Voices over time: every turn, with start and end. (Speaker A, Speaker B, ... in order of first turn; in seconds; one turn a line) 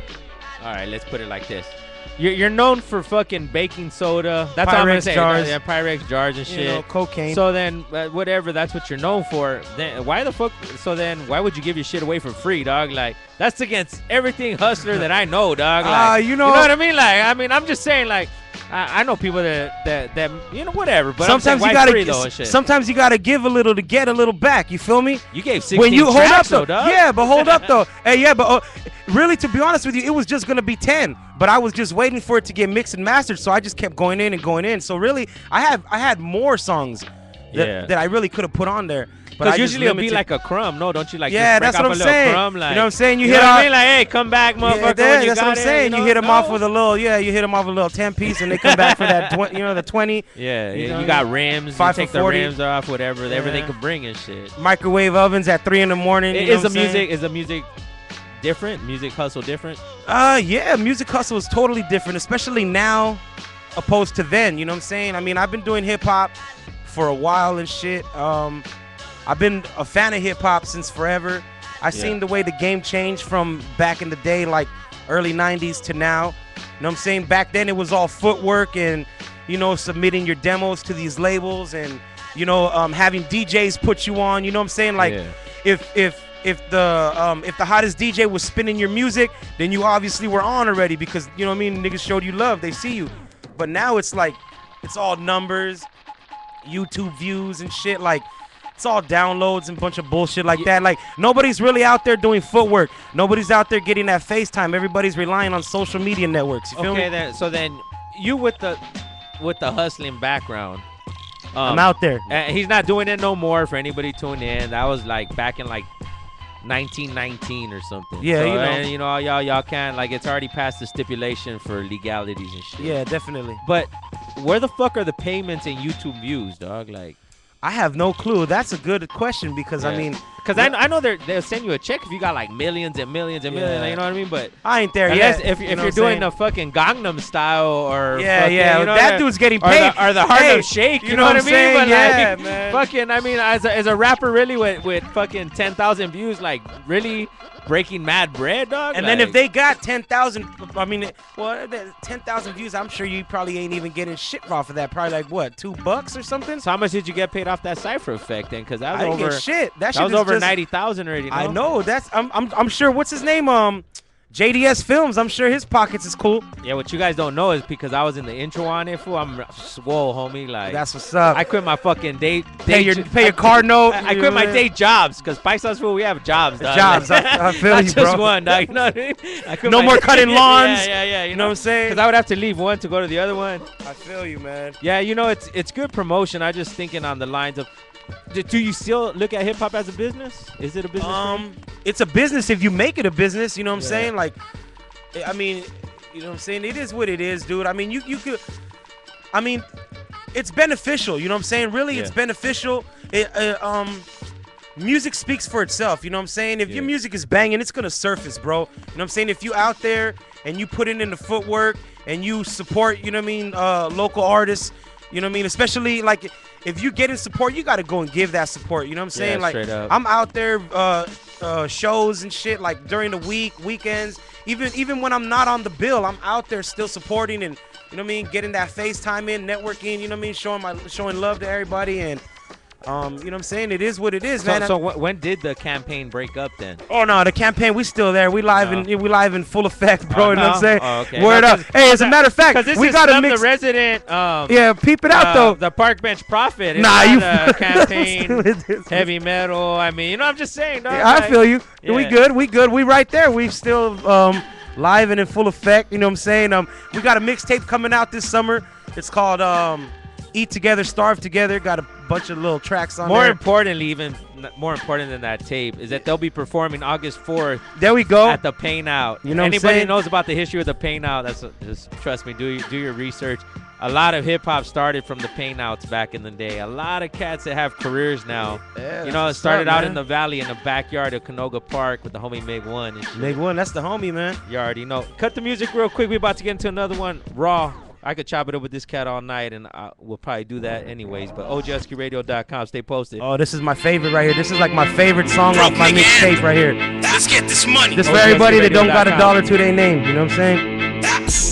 Speaker A: 0.6-22.6
Speaker B: 4.6-5.6
Speaker B: 6.5-7.4
Speaker B: 15.8-16.7
Speaker B: 21.2-40.2
Speaker A: 25.3-27.7
Speaker A: 37.5-37.9
Speaker A: 39.4-46.6
Speaker B: 41.3-43.7
Speaker B: 44.6-52.5
Speaker A: 48.3-49.8
Speaker A: 50.3-54.5
Speaker B: 53.3-53.7
Speaker B: 54.5-57.0
Speaker A: 56.3-57.7
Speaker A: 58.4-59.8
Speaker B: 60.1-63.2
Speaker B: 63.7-68.6
Speaker B: 69.2-95.9
Speaker A: 85.0-85.3
Speaker B: 96.6-107.1
Speaker A: 106.7-108.8
Speaker A: 109.4-110.8
Speaker A: 111.5-115.9
Speaker B: 111.6-112.3
Speaker A: 116.6-122.9
Speaker B: 118.2-118.8
Speaker B: 122.8-123.6
Speaker A: 123.6-127.2
Speaker B: 127.6-130.8
Speaker A: 129.8-134.5
Speaker B: 133.5-134.0
Speaker B: 134.6-136.3
Speaker A: 135.1-149.3
Speaker B: 138.1-142.8
Speaker B: 148.9-156.6
Speaker A: 156.6-159.4
Speaker B: 158.9-160.5
Speaker A: 159.9-161.6
Speaker B: 161.3-166.4
Speaker A: 166.6-183.7
Speaker B: 170.7-171.4
Speaker B: 172.7-174.6
Speaker B: 176.6-178.6
Speaker B: 179.6-182.0
Speaker B: 183.8-184.8
Speaker A: 184.8-187.7
Speaker A: 188.3-191.4
Speaker B: 191.0-194.3
Speaker A: 193.7-194.1
Speaker B: 195.1-198.4
Speaker B: 199.3-199.7
Speaker B: 200.3-204.1
Speaker B: 204.8-232.2
Speaker A: 219.1-219.9
Speaker B: 232.8-234.7
Speaker A: 234.4-236.8
Speaker B: 236.9-243.4
Speaker A: 238.5-238.9
Speaker A: 240.1-252.2
Speaker B: 244.5-245.6
Speaker B: 246.7-249.1
Speaker B: 250.9-263.4
Speaker A: 263.0-267.6
Speaker B: 267.8-268.4
Speaker A: 268.2-283.4
Speaker B: 269.2-269.9
Speaker B: 278.6-280.0
Speaker B: 283.1-284.4
Speaker A: 284.4-293.2
Speaker B: 293.2-296.8
Speaker C: 295.5-296.4
Speaker C: 297.0-298.1
Speaker B: 297.9-300.7
Speaker A: 298.0-299.4